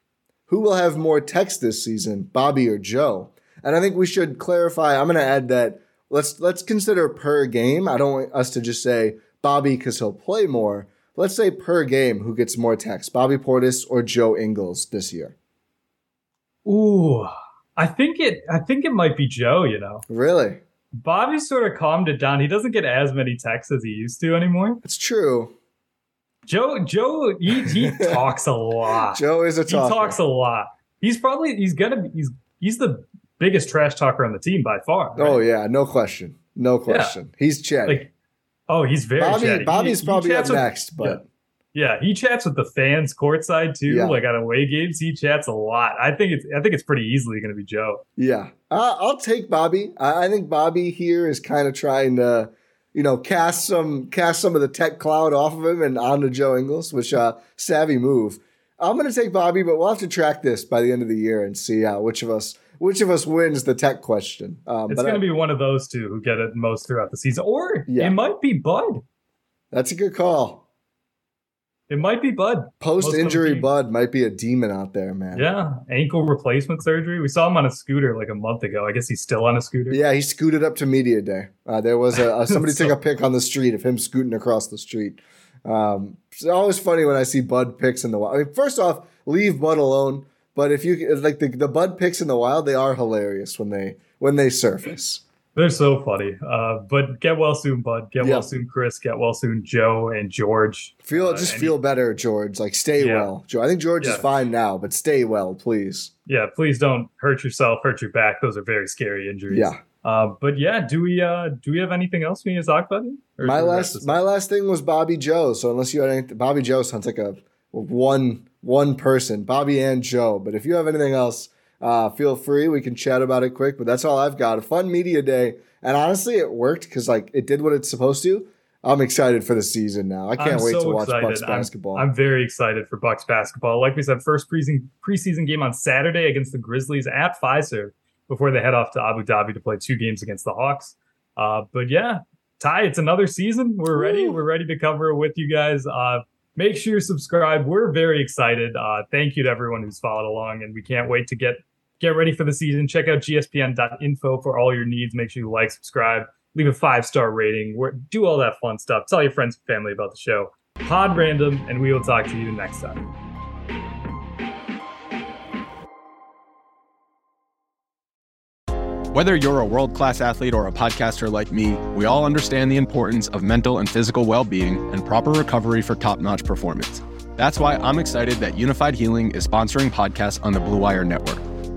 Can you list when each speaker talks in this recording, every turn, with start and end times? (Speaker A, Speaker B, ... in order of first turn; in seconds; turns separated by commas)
Speaker A: 0.5-15.3, Speaker B: 16.6-20.0, Speaker A: 20.1-20.6, Speaker B: 21.0-24.8, Speaker A: 24.8-25.5, Speaker B: 26.5-35.4, Speaker A: 27.6-28.4, Speaker A: 29.1-30.2, Speaker A: 35.1-38.1, Speaker B: 36.9-37.1, Speaker B: 38.7-41.2, Speaker A: 39.2-41.2, Speaker B: 41.7-48.0, Speaker A: 43.9-44.2, Speaker A: 48.2-65.2, Speaker B: 64.9-69.0, Speaker A: 67.9-68.2, Speaker A: 69.7-70.6, Speaker B: 71.9-73.7, Speaker A: 72.8-75.5, Speaker B: 75.3-80.0, Speaker A: 79.9-95.2, Speaker B: 82.2-82.9, Speaker B: 95.5-101.7, Speaker A: 98.2-98.5, Speaker A: 101.0-106.1, Speaker B: 103.0-103.3, Speaker B: 104.0-104.3, Speaker B: 106.3-114.2, Speaker A: 109.5-109.8, Speaker A: 113.4-132.1, Speaker B: 130.4-163.1, Speaker A: 143.9-144.4, Speaker C: 169.1-181.4